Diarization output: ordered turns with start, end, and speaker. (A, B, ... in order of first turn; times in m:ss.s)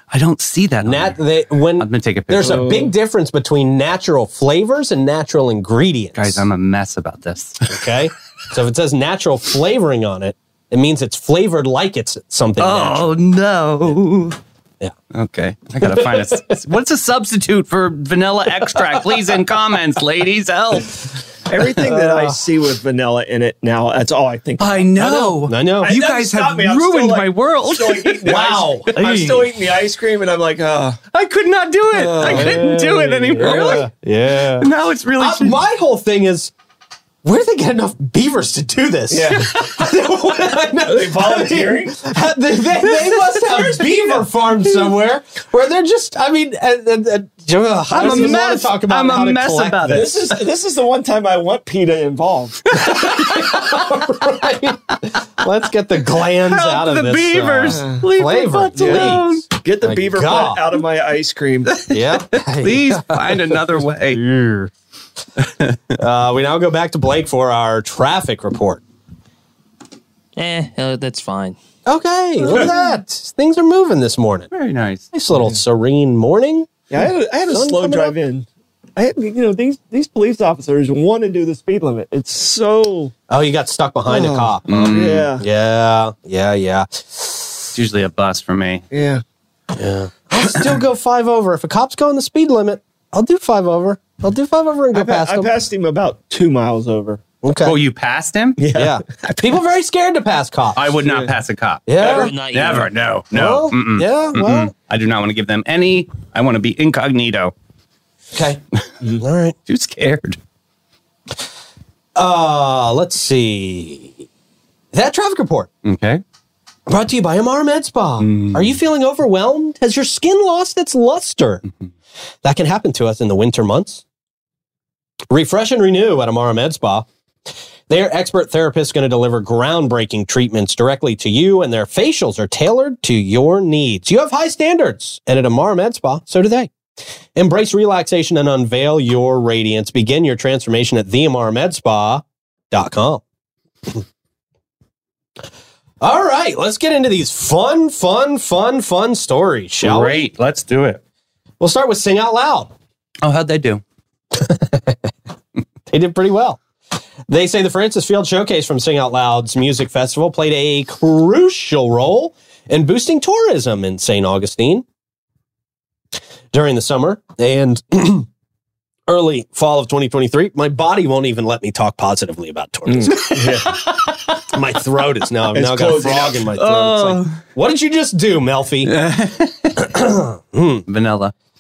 0:00.1-0:01.2 A
0:00.8-0:06.4 B
0:01.8-0:02.8 A
0:02.4-0:02.9 C
0:06.2-0:07.8 A
0:07.7-0:13.2 B
0:12.6-0:14.4 A
0:15.1-0:21.1 A
0:15.8-0:16.6 B
0:18.7-0:19.4 B
0:21.5-0:31.0 C
0:21.6-0:22.4 B
0:24.6-0:29.5 A
0:25.4-0:26.0 B
0:28.2-0:29.2 B
0:31.1-0:33.9 A
0:31.9-0:33.9 C
0:32.2-0:36.5 B
0:34.6-0:35.6 A
0:37.2-0:50.1 B
0:39.1-0:39.7 C
0:40.8-0:42.0 C
0:47.9-0:50.4 A
0:47.9-0:48.4 C
0:49.9-0:52.6 C
0:52.7-0:54.0 A
0:52.7-1:00.7 B
0:56.3-0:59.4 A
0:57.7-0:58.0 C
0:58.8-1:01.8 C
1:01.7-1:04.2 A
1:01.9-1:04.7 B
1:05.4-1:05.8 A
1:06.0-1:08.8 B
1:10.4-1:11.6 D
1:11.9-1:14.5 B
1:14.5-1:15.1 A
1:15.1-1:16.8 B
1:16.9-1:23.1 C
1:17.5-1:18.2 B
1:23.3-1:27.7 B
1:24.1-1:25.5 C
1:24.7-1:25.3 A
1:27.7-1:28.8 A
1:28.9-1:29.2 C
1:29.8-1:35.5 B
1:34.9-1:37.2 C
1:37.4-1:37.8 B
1:37.6-1:38.6 A
1:38.6-1:39.6 C
1:38.7-1:40.9 B
1:40.8-1:47.5 A
1:41.0-1:41.3 C
1:41.9-1:42.3 B
1:42.0-1:42.3 C
1:42.0-1:42.9 D
1:43.3-1:44.7 B
1:48.3-1:48.6 B
1:49.2-1:49.6 B
1:49.7-1:50.4 A
1:52.2-1:54.3 B
1:54.9-1:55.7 B
1:55.8-1:56.2 A
1:56.9-2:01.6 B
1:58.2-1:58.8 A
2:02.4-2:04.0 B
2:05.3-2:07.1 B
2:07.9-2:16.7 B
2:17.4-2:23.2 B
2:26.0-2:30.3 B
2:29.8-2:31.0 A
2:31.6-2:32.7 B
2:33.2-2:33.8 A
2:34.3-2:35.1 B
2:35.9-2:36.6 B
2:37.3-2:44.9 B
2:46.5-2:48.3 B
2:49.1-2:59.0 B
2:52.9-2:53.8 C
2:55.5-2:57.3 C
2:58.9-2:59.7 A
2:59.8-3:00.9 B
3:00.9-3:01.3 A